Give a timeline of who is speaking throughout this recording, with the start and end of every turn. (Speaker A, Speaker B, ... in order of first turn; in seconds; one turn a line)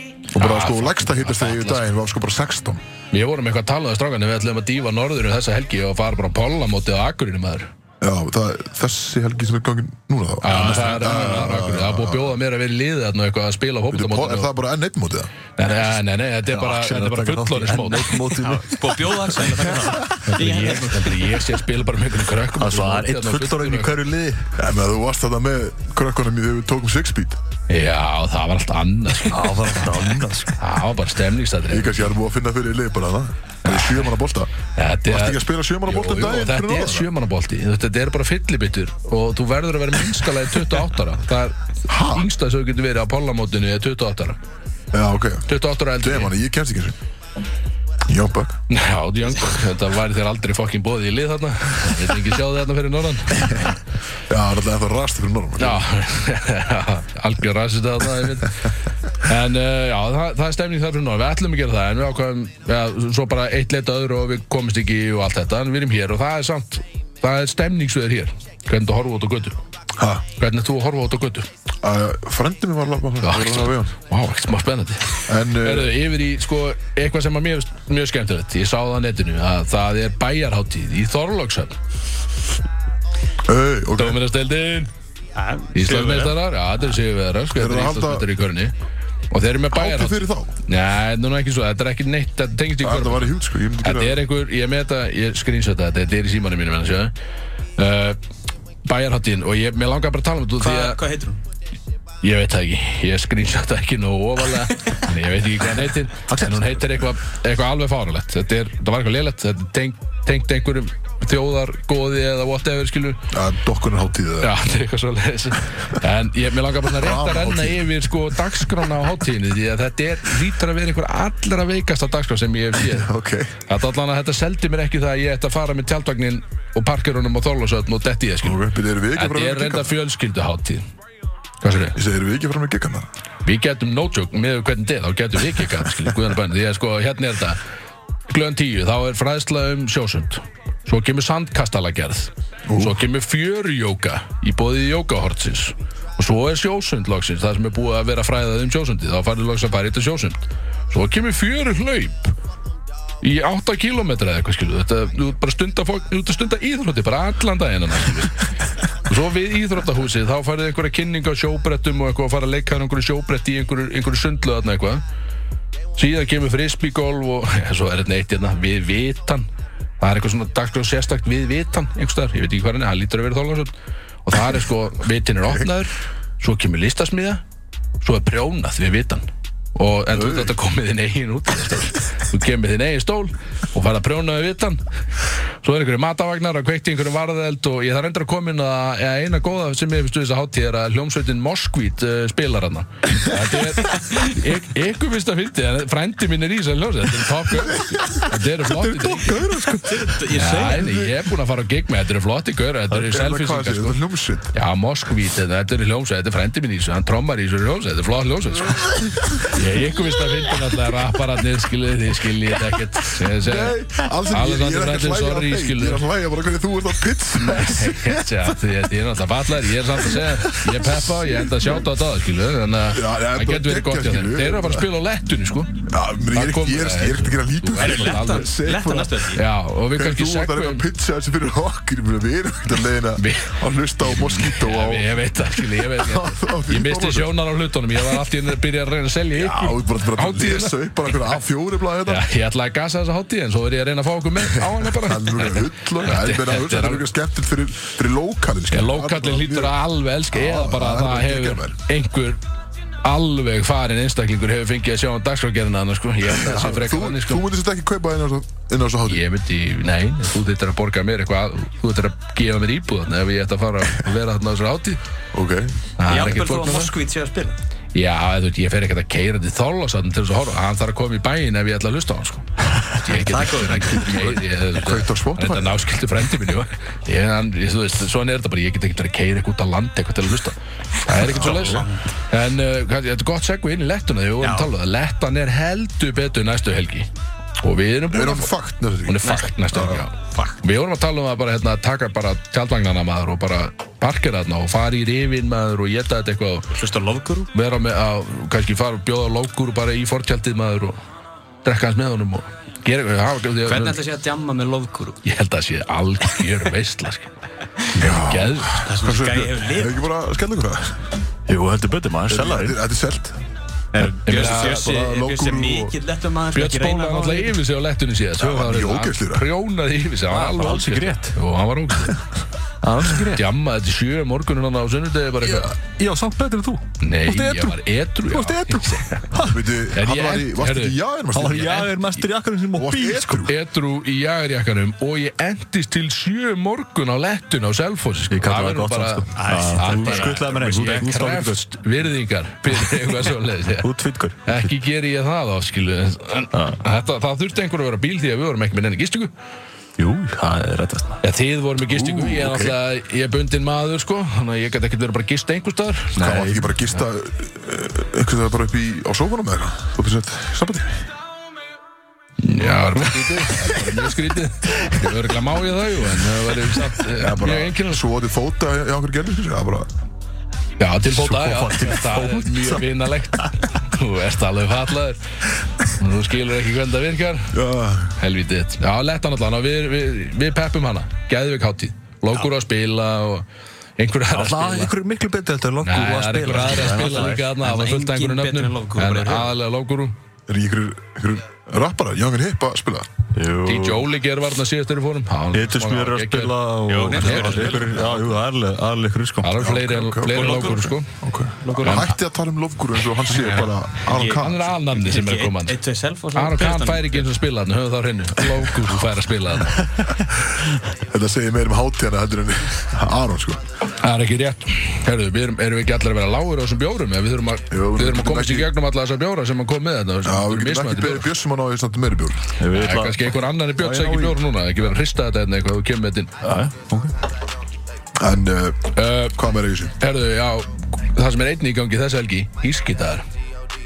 Speaker A: 0.3-2.8
Speaker B: 0.3-1.9
Speaker B: 3.1-7.7
Speaker A: 8.0-12.3
Speaker B: 10.4-14.5
Speaker C: 10.4-11.2
Speaker A: 13.9-15.3
Speaker B: 15.6-18.4
Speaker D: 16.5-20.0
Speaker C: 18.4-21.3
Speaker B: 20.2-23.9
Speaker D: 22.5-24.5
Speaker A: 24.6-27.4
Speaker B: 27.7-29.8
Speaker D: 29.3-30.6
Speaker B: 30.6-32.1
Speaker A: 31.7-34.5
Speaker B: 33.7-33.9
Speaker B: 34.8-44.4
Speaker A: 35.1-37.1
Speaker A: 41.9-42.3
Speaker A: 44.9-47.0
Speaker B: 45.5-46.3
Speaker A: 48.1-48.6
Speaker B: 48.7-53.8
Speaker A: 54.3-55.8
Speaker B: 55.6-69.6
Speaker A: 70.0-70.2
Speaker B: 70.3-71.5
Speaker A: 71.8-73.9
Speaker B: 73.2-81.8
Speaker A: 75.3-76.0
Speaker A: 83.5-84.2
Speaker B: 84.0-84.9
Speaker C: 85.3-86.4
Speaker B: 85.7-88.7
Speaker A: 87.5-88.3
Speaker B: 89.3-97.1
Speaker A: 89.7-90.5
Speaker A: 92.8-94.2
Speaker B: 97.8-98.2
Speaker B: 98.8-101.0
Speaker C: 100.6-101.4
Speaker B: 102.2-113.3
Speaker D: 106.3-106.7
Speaker A: 113.3-114.5
Speaker B: 114.4-123.1
Speaker A: 117.0-117.9
Speaker A: 122.8-123.5
Speaker B: 123.7-128.6
Speaker A: 128.4-129.9
Speaker B: 129.1-130.8
Speaker B: 131.6-132.0
Speaker A: 131.9-133.1
Speaker B: 133.4-137.6
Speaker B: 138.3-152.3
Speaker A: 142.7-143.0
Speaker B: 153.2-158.4
Speaker B: 159.0-165.0
Speaker B: 165.9-169.5
Speaker B: 170.0-173.7
Speaker B: 174.2-177.4
Speaker B: 178.0-184.8
Speaker A: 180.1-180.5
Speaker B: 185.6-199.4
Speaker A: 197.6-201.1
Speaker D: 199.3-199.8
Speaker C: 199.8-201.0
Speaker B: 200.3-204.0
Speaker A: 202.9-204.5
Speaker B: 204.5-213.8
Speaker A: 208.8-209.5
Speaker A: 213.3-218.4
Speaker B: 214.3-216.0
Speaker B: 217.4-228.5
Speaker A: 220.1-221.8
Speaker A: 222.9-224.9
Speaker A: 225.9-229.2
Speaker C: 227.8-229.4
Speaker B: 229.3-230.8
Speaker A: 229.9-235.2
Speaker B: 233.2-240.8
Speaker A: 235.8-237.3
Speaker A: 239.3-242.2
Speaker B: 242.1-247.1
Speaker A: 244.4-249.8
Speaker B: 248.7-252.4
Speaker A: 250.3-251.8
Speaker B: 253.0-257.4
Speaker A: 256.2-259.2
Speaker B: 259.1-265.0
Speaker A: 265.3-265.8
Speaker B: 266.0-266.9
Speaker C: 266.1-267.6
Speaker B: 267.9-287.1
Speaker C: 273.0-274.4
Speaker A: 274.7-275.9
Speaker A: 281.1-281.8
Speaker C: 281.2-282.0
Speaker C: 284.4-284.7
Speaker B: 287.6-288.5
Speaker A: 288.1-290.0
Speaker B: 289.1-296.7
Speaker C: 289.2-289.5
Speaker C: 290.1-290.6
Speaker C: 296.7-297.5
Speaker B: 297.5-301.0
Speaker B: 301.6-304.0
Speaker C: 303.6-305.2
Speaker B: 305.2-307.3
Speaker B: 307.9-308.8
Speaker A: 307.9-311.0
Speaker C: 308.8-310.0
Speaker D: 311.5-312.8
Speaker A: 312.3-313.4
Speaker C: 313.9-317.6
Speaker B: 314.2-314.9
Speaker A: 314.3-315.9
Speaker B: 316.5-322.2
Speaker A: 318.4-319.5
Speaker D: 320.3-321.4
Speaker D: 322.8-323.4
Speaker B: 323.2-325.8
Speaker D: 325.4-329.7
Speaker B: 327.0-329.4
Speaker A: 329.4-331.9
Speaker B: 329.9-331.0
Speaker D: 331.3-333.5
Speaker B: 331.5-331.9
Speaker A: 332.7-333.6
Speaker B: 333.4-343.9
Speaker D: 338.3-341.6
Speaker C: 339.3-341.1
Speaker D: 343.8-344.7
Speaker B: 344.4-349.3
Speaker D: 346.5-346.8
Speaker D: 350.0-351.2
Speaker B: 351.2-356.4
Speaker A: 351.9-352.8
Speaker D: 356.2-356.7
Speaker A: 356.2-361.1
Speaker B: 362.4-368.0
Speaker D: 363.2-363.4
Speaker A: 367.1-369.9
Speaker B: 370.8-375.2
Speaker D: 371.1-372.9
Speaker B: 375.8-377.6
Speaker A: 377.5-378.2
Speaker B: 378.2-383.4
Speaker B: 384.0-384.9
Speaker D: 384.3-387.4
Speaker B: 385.8-390.1
Speaker C: 386.7-389.5
Speaker A: 390.5-393.1
Speaker D: 393.3-394.1
Speaker B: 393.6-396.6
Speaker D: 395.5-399.5
Speaker C: 396.9-398.3
Speaker B: 397.1-397.8
Speaker A: 397.7-398.1
Speaker B: 399.4-401.1
Speaker A: 399.6-404.7
Speaker C: 400.3-400.9
Speaker C: 401.6-402.1
Speaker B: 401.8-402.1
Speaker C: 403.3-407.2
Speaker B: 404.3-405.8
Speaker B: 406.3-409.9
Speaker A: 410.1-413.6
Speaker B: 414.0-421.3
Speaker A: 417.7-418.7
Speaker A: 420.2-422.5
Speaker D: 422.6-424.4
Speaker B: 422.7-426.4
Speaker D: 426.4-427.1
Speaker A: 428.2-430.0
Speaker B: 428.9-429.4
Speaker B: 430.0-433.2